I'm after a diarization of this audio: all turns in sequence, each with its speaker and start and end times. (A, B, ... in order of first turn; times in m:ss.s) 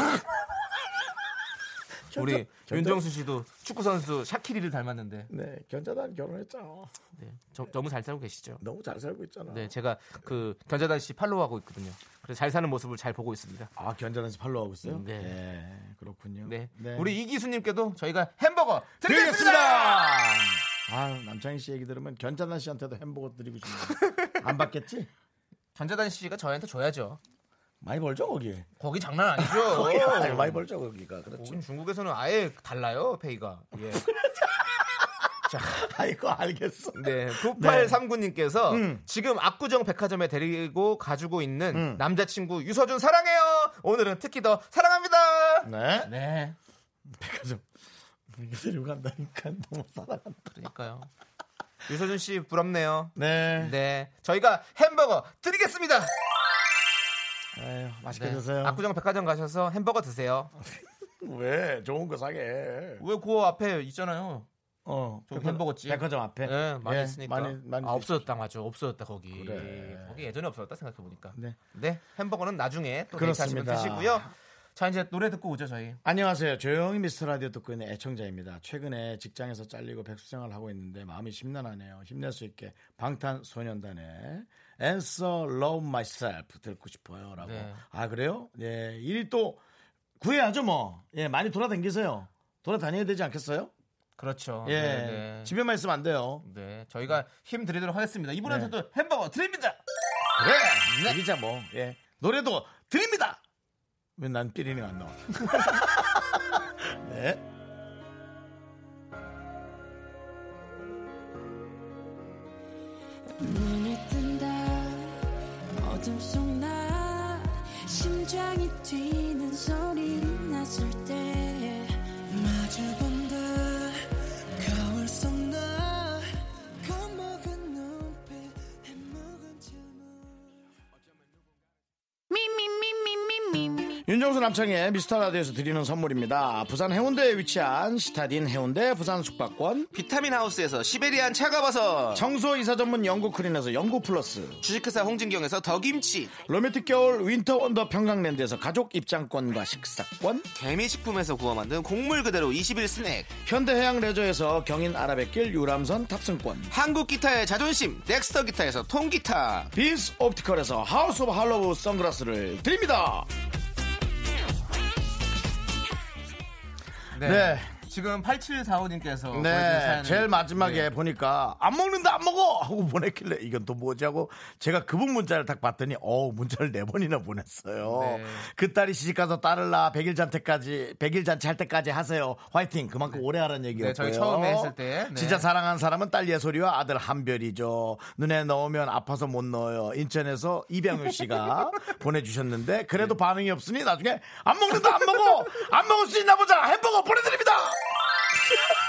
0:02.1-0:03.0 A
0:02.1-0:05.3 B
0:05.3-0:06.9 A
0:07.2-0:08.6 B
0:08.6-0:09.7 A
0:09.5-0:13.7 B
0:13.8-0:17.2 A
0:14.8-0:15.4 B
0:16.4-0:20.2 B
0:19.0-0:25.1 A
0:24.0-0:24.3 B
0:25.7-0:27.2 B
0:27.8-0:28.7 A
0:28.8-0:30.6 B
0:29.4-0:31.6 A
0:31.4-0:34.1 B
0:34.1-0:35.1 A
0:35.5-0:35.8 B
0:35.6-0:38.0 A
0:36.9-0:46.6 B
0:38.7-0:39.0 A
0:41.7-0:42.0 A
0:45.6-0:46.1 A
0:47.1-0:47.6 A
0:48.3-0:50.6 A
0:50.5-0:51.1 B
0:51.9-0:56.1 B
0:53.2-0:53.7 A
0:57.5-0:58.8 A
0:58.1-1:00.5 B
1:00.6-1:03.0 A
1:03.0-1:04.5 B
1:04.8-1:08.2 A
1:05.3-1:16.0 B
1:09.3-1:10.2 A
1:13.1-1:14.3 A
1:16.0-1:29.6 A
1:27.4-1:27.8 B
1:30.2-1:33.7 A
1:34.2-1:35.5 B
1:34.6-1:36.4 A
1:36.4-1:39.8 B
1:38.4-1:38.7 A
1:40.4-1:43.4 A
1:40.9-1:41.2 B
1:44.2-1:47.4 A
1:53.4-1:55.3 C
1:55.8-2:10.5 C
2:12.3-2:14.0 C
2:14.0-2:19.9 A
2:19.9-2:22.3 B
2:22.1-2:24.6 A
2:24.6-2:26.4 B
2:26.5-2:30.5 A
2:30.5-2:33.3 B
2:33.4-2:36.7 A
2:36.7-2:39.7 B
2:39.7-2:43.3 A
2:47.1-2:50.9 B
2:47.2-2:47.7 A
2:49.3-3:18.7 A
2:57.8-2:58.5 B
3:03.8-3:05.5 B